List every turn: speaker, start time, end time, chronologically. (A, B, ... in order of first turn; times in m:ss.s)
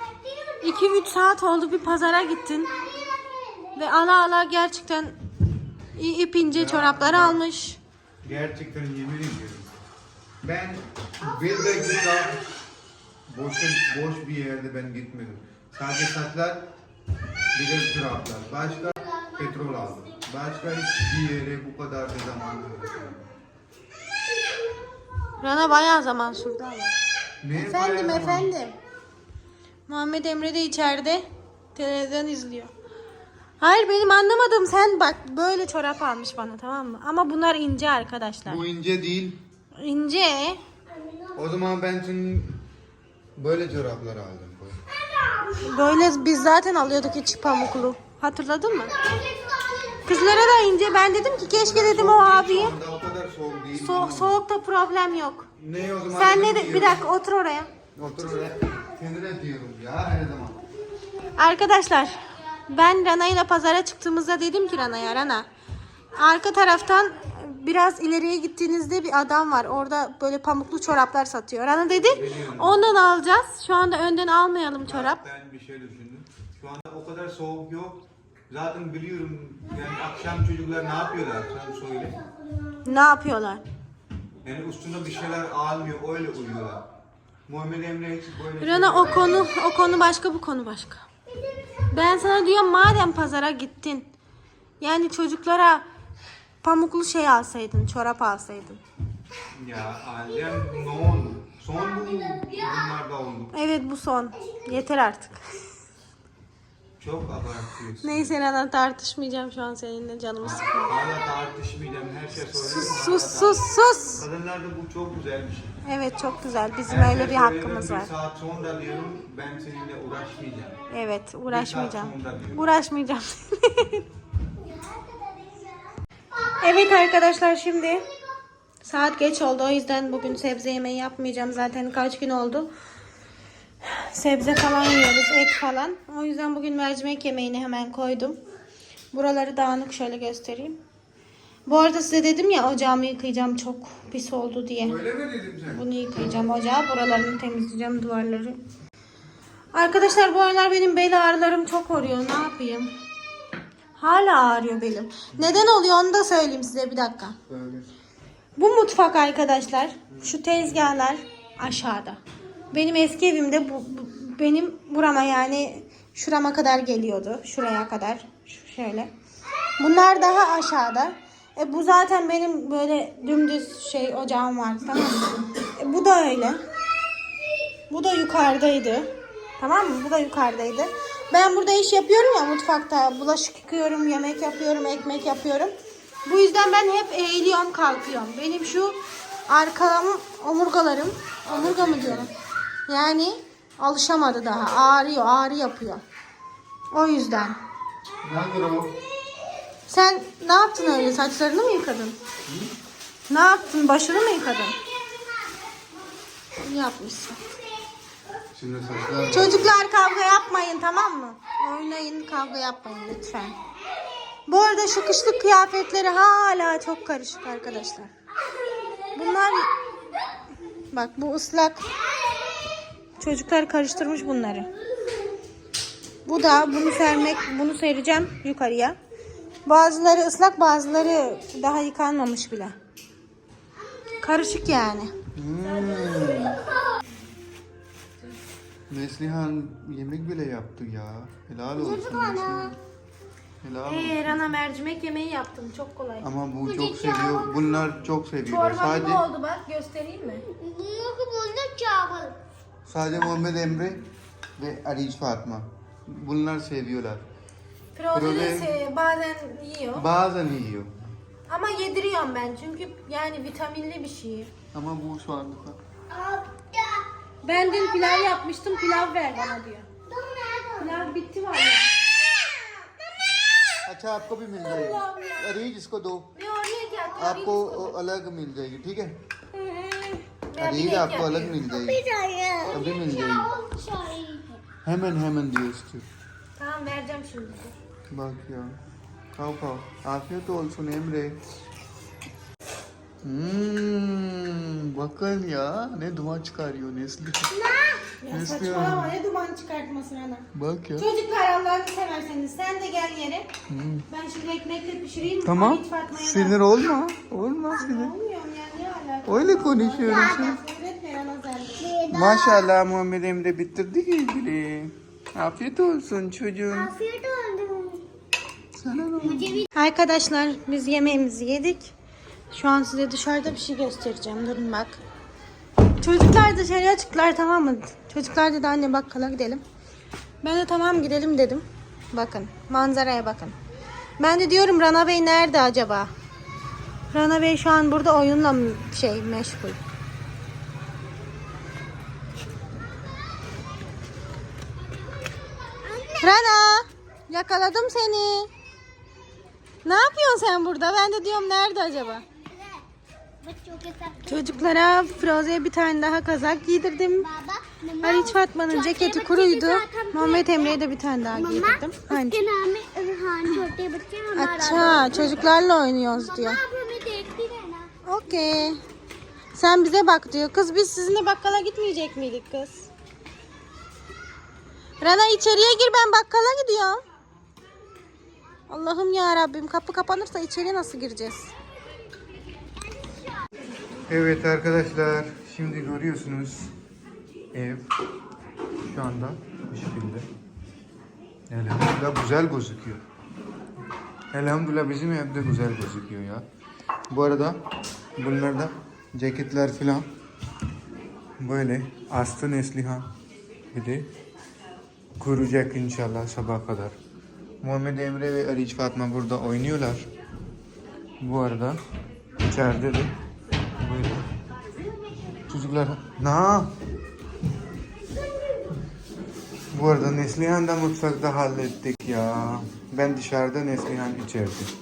0:00.3-0:00.6 A
0:00.6-0:02.8 B
0:02.8-0:03.7 A
0:03.7-0:05.2 B
0:05.9-0:07.8 B
0:06.4-0:07.4 C
0:08.2-0:09.7 C
0:10.4-0:12.4 C
0:13.3-0:16.7 C
0:17.5-0:23.2 C
0:25.4-0:26.9 B
0:27.4-0:28.5 C
0:27.6-0:28.7 B
0:29.9-0:31.2 B
0:31.7-0:32.7 B
0:33.6-0:38.6 B
0:38.4-0:39.4 C
0:39.8-0:40.6 B
0:41.0-0:41.3 A
0:41.3-0:42.6 C
0:43.4-0:44.8 C
0:45.6-0:49.0 B
0:49.1-0:50.0 A
0:50.0-0:52.8 B
0:51.5-0:54.4 C
0:53.7-0:55.5 B
0:55.6-0:57.0 C
0:56.1-0:57.7 B
0:58.0-1:00.6 C
1:01.3-1:05.5 B
1:06.1-1:15.2 B
1:12.0-1:12.8 C
1:14.8-1:22.2 C
1:22.8-1:23.6 B
1:24.4-1:26.8 C
1:27.5-1:29.5 C
1:28.6-1:31.0 B
1:31.9-1:34.1 B
1:34.8-1:35.8 B
1:36.6-1:38.8 B
1:39.5-1:43.5 C
1:43.5-1:45.6 B
1:47.0-1:48.3 C
1:48.0-1:51.0 B
1:50.4-1:55.8 C
1:52.6-1:54.2 B
1:55.8-1:58.1 B
1:56.8-2:00.8 C
2:00.9-2:04.0 B
2:01.5-2:02.7 C
2:04.7-2:05.8 A
2:06.6-2:08.1 B
2:08.8-2:12.7 B
2:13.8-2:18.4 B
2:19.1-2:20.8 B
2:21.6-2:25.0 B
2:24.8-2:25.8 C
2:25.7-2:28.6 B
2:29.7-2:32.9 B
2:34.0-2:37.4 B
2:37.5-2:37.9 C
2:38.6-2:42.2 B
2:42.7-2:49.1 B
2:49.8-2:56.6 B
2:57.9-3:05.7 B
3:06.2-3:09.0 B
3:09.5-3:12.3 B
3:11.4-3:12.3 C
3:12.9-3:16.0 B
3:16.9-3:17.6 B
3:18.2-3:18.9 C
3:19.9-3:22.2 B
3:22.5-3:22.7 C
3:23.3-3:24.8 B
3:26.6-3:27.4 B
3:28.5-3:29.8 C
3:29.3-3:33.6 B
3:34.5-3:38.1 B
3:39.1-3:39.7 B
3:40.9-3:41.8 B
3:43.2-3:44.7 B
3:46.2-3:49.0 B
3:49.6-3:52.7 B
3:54.2-3:55.1 B
3:55.3-3:56.6 C
3:58.9-4:02.8 C
4:01.8-4:02.7 A
4:03.6-4:04.4 C
4:03.8-4:06.3 B
4:06.2-4:09.2 C
4:06.6-4:07.6 A
4:08.4-4:10.5 B
4:10.5-4:12.4 A
4:12.9-4:14.0 C
4:14.6-4:17.2 C
4:18.0-4:20.0 B
4:18.1-4:18.7 C
4:20.0-4:20.9 C
4:21.5-4:24.5 B
4:24.7-4:25.8 C
4:26.1-4:27.1 A
4:27.4-4:29.9 B
4:30.1-4:31.0 A
4:30.8-4:31.9 B
4:33.8-4:36.3 C
4:34.9-4:35.4 B
4:36.3-4:38.0 B
4:37.2-4:39.2 C
4:40.5-4:41.6 B
4:40.6-4:42.0 C
4:41.6-4:44.6 A
4:42.7-4:43.5 C
4:44.8-4:46.0 C
4:46.6-4:47.7 B
4:48.1-4:48.7 C
4:49.3-4:51.3 C
4:53.2-4:57.5 C
4:57.5-4:58.1 A
4:58.2-5:00.4 B
4:58.3-4:59.2 C
5:00.5-5:01.1 C
5:01.0-5:03.5 B
5:03.7-5:04.0 C
5:04.1-5:06.6 B
5:05.4-5:08.1 C
5:07.7-5:11.9 B
5:09.2-5:10.6 C
5:11.8-5:12.7 A
5:12.1-5:16.9 C
5:16.7-5:18.0 A
5:18.7-5:19.6 C
5:19.2-5:19.6 A
5:19.7-5:21.9 B
5:22.5-5:25.0 B
5:26.0-5:29.6 B
5:30.4-5:33.6 B
5:34.2-5:36.1 B
5:37.1-5:39.8 B
5:45.7-5:46.4 A
5:46.2-5:48.5 B
5:49.8-5:52.2 B
5:52.5-5:52.8 A
5:53.4-5:54.3 A
5:54.2-5:57.3 B
5:57.4-6:00.7 A
5:58.0-6:02.4 B
6:01.5-6:05.4 A
6:04.3-6:06.6 B
6:06.3-6:07.9 A
6:08.0-6:08.8 B
6:09.5-6:12.9 B
6:15.0-6:17.0 B
6:18.7-6:21.5 B
6:24.1-6:26.7 C
6:27.5-6:27.9 C
6:28.8-6:30.3 C
6:31.5-6:33.0 C
6:34.3-6:36.4 C
6:37.1-6:37.6 C
6:38.2-6:40.0 C
6:41.4-6:43.1 C
6:43.7-6:44.1 C
6:45.2-6:46.9 C
6:47.6-6:50.0 C
6:51.2-6:51.8 C
6:52.5-6:53.1 C
6:53.8-6:54.2 C
6:55.5-6:56.7 C
6:59.7-7:04.7 C